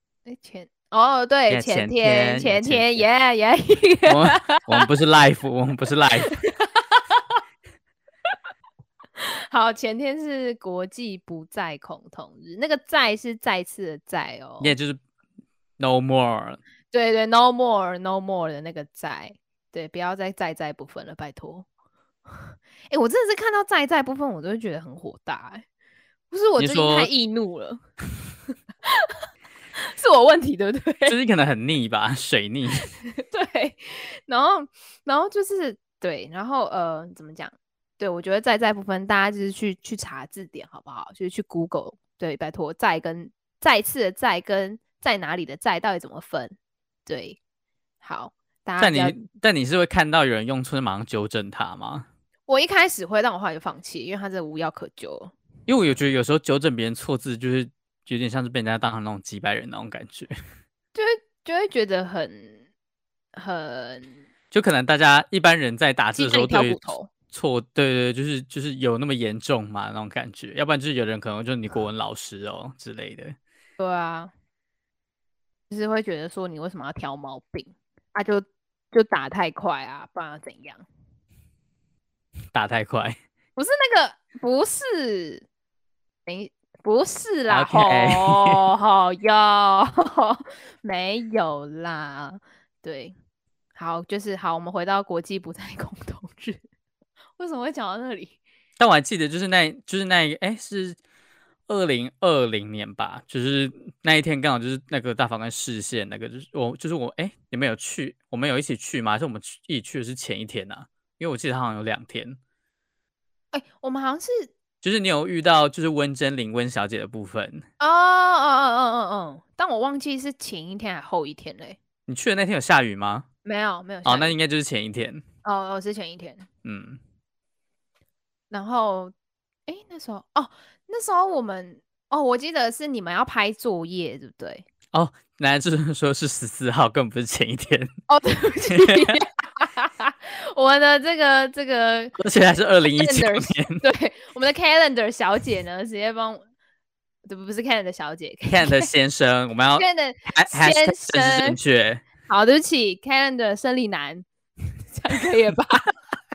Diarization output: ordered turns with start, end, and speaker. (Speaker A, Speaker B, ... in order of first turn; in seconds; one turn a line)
Speaker A: 0.3-4.8
Speaker B: 1.5-3.1
Speaker B: 4.1-6.3
Speaker A: 6.3-7.2
Speaker A: 9.2-14.8
Speaker B: 14.6-15.0
Speaker B: 15.8-16.6
Speaker A: 16.9-21.7
Speaker A: 22.9-25.6
Speaker A: 26.3-27.8
Speaker B: 26.6-27.1
Speaker A: 28.9-29.1
Speaker A: 29.8-31.2
Speaker B: 31.1-32.9
Speaker A: 33.1-47.4
Speaker A: 48.0-49.2
Speaker B: 48.8-52.1
Speaker A: 52.5-55.3
Speaker B: 55.7-60.4
Speaker A: 61.0-62.6
Speaker A: 63.4-64.1
Speaker B: 64.5-73.4
Speaker A: 66.2-67.1
Speaker A: 73.8-74.3
Speaker A: 75.7-80.8
Speaker B: 82.5-83.2
Speaker A: 83.6-85.5
Speaker A: 86.3-93.1
Speaker B: 87.5-88.6
Speaker A: 93.8-96.6
Speaker A: 97.4-98.4
Speaker B: 98.8-101.0
Speaker B: 101.7-112.4
Speaker A: 113.5-114.5
Speaker B: 114.8-117.7
Speaker A: 117.8-121.8
Speaker B: 122.1-123.3
Speaker A: 123.5-124.3
Speaker B: 124.0-125.2
Speaker A: 125.4-126.5
Speaker B: 126.7-127.0
Speaker A: 128.5-129.1
Speaker A: 129.7-134.7
Speaker B: 134.9-137.9
Speaker A: 138.1-142.2
Speaker B: 138.7-139.2
Speaker B: 142.2-143.8
Speaker A: 142.9-146.4
Speaker A: 147.3-148.9
Speaker B: 148.5-152.0
Speaker A: 149.8-151.6
Speaker A: 152.3-154.2
Speaker A: 154.9-155.9